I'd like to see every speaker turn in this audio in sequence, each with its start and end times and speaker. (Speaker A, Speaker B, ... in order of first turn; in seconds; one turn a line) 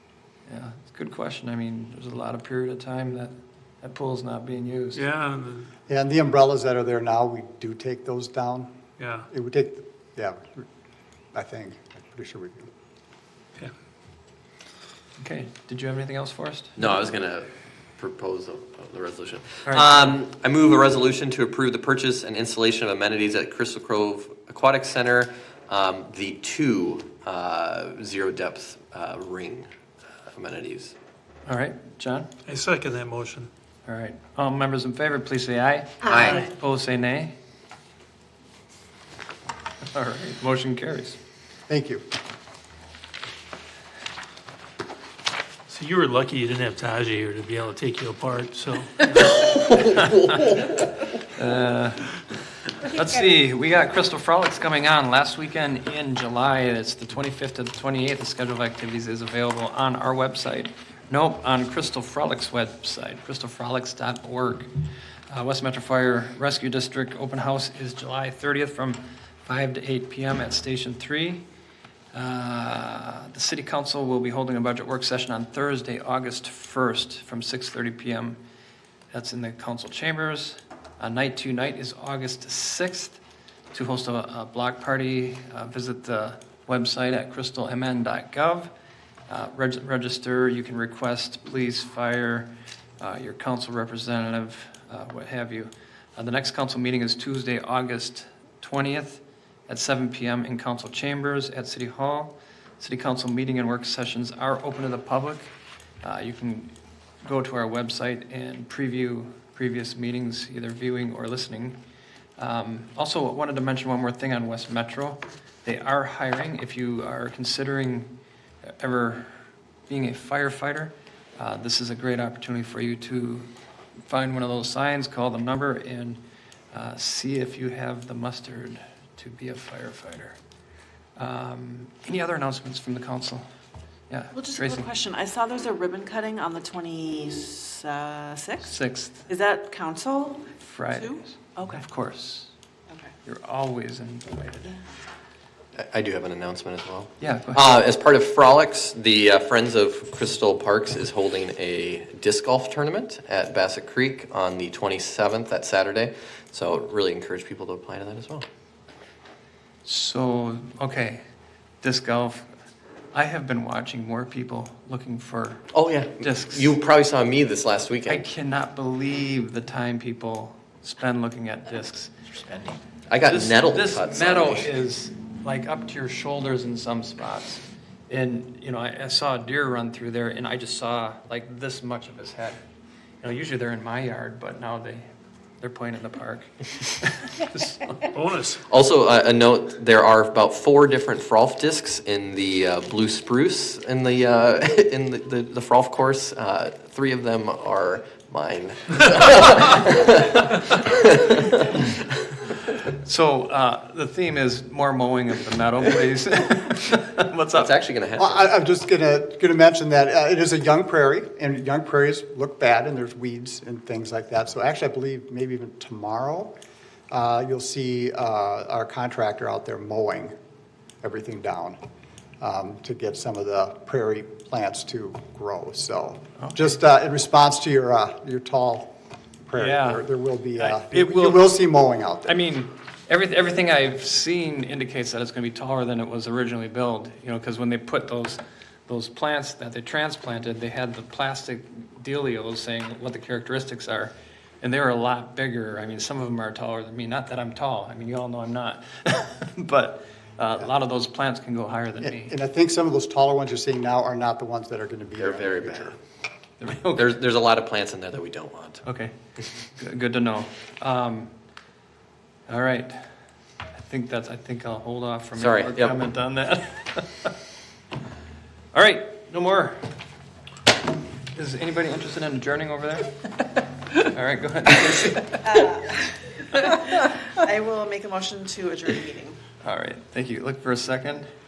Speaker A: 0.5-5.0
Speaker B: 4.9-5.7
Speaker C: 5.9-8.7
Speaker B: 9.0-9.3
Speaker C: 9.3-10.6
Speaker C: 11.3-12.7
Speaker A: 15.2-16.8
Speaker D: 16.8-29.7
Speaker A: 19.6-20.1
Speaker D: 30.3-30.9
Speaker A: 31.4-32.3
Speaker B: 32.5-33.5
Speaker A: 33.9-37.3
Speaker D: 36.1-36.4
Speaker A: 39.9-41.2
Speaker C: 41.7-42.0
Speaker B: 45.7-49.3
Speaker D: 49.1-50.9
Speaker A: 51.3-52.2
Speaker A: 52.8-64.7
Speaker A: 65.3-71.4
Speaker A: 72.1-78.4
Speaker A: 79.1-83.2
Speaker A: 83.7-88.7
Speaker A: 89.3-105.5
Speaker A: 106.0-106.7
Speaker A: 107.2-111.8
Speaker A: 112.4-118.1
Speaker A: 118.8-119.3
Speaker A: 119.9-123.5
Speaker A: 124.0-126.2
Speaker A: 126.7-130.4
Speaker A: 131.2-133.4
Speaker A: 134.1-134.9
Speaker E: 134.3-138.7
Speaker A: 138.6-139.3
Speaker E: 139.3-141.8
Speaker A: 140.6-142.5
Speaker A: 143.2-144.8
Speaker D: 145.8-158.4
Speaker A: 147.2-147.9
Speaker A: 159.8-161.2
Speaker A: 161.8-162.5
Speaker A: 163.1-166.7
Speaker D: 165.7-168.2
Speaker A: 168.1-172.1
Speaker D: 173.1-174.7
Speaker A: 173.2-182.6
Speaker A: 183.2-185.0
Speaker A: 185.6-188.1
Speaker B: 188.1-188.6
Speaker D: 188.7-202.0
Speaker A: 202.8-207.8
Speaker D: 207.5-208.4
Speaker C: 208.2-216.5
Speaker C: 217.1-220.3
Speaker C: 221.0-221.8
Speaker C: 222.4-228.9
Speaker A: 226.4-226.7
Speaker C: 229.4-232.4
Speaker A: 229.5-231.5
Speaker A: 232.2-252.3
Speaker C: 252.0-255.9
Speaker D: 255.2-256.0
Speaker A: 256.6-257.1
Speaker D: 256.9-258.8
Speaker A: 258.8-259.1
Speaker A: 259.7-261.3
Speaker A: 262.5-263.0
Speaker A: 263.7-267.3
Speaker D: 265.4-266.0
Speaker A: 268.7-269.8
Speaker A: 271.3-273.2
Speaker A: 273.9-275.5
Speaker E: 275.4-279.4
Speaker A: 279.6-281.3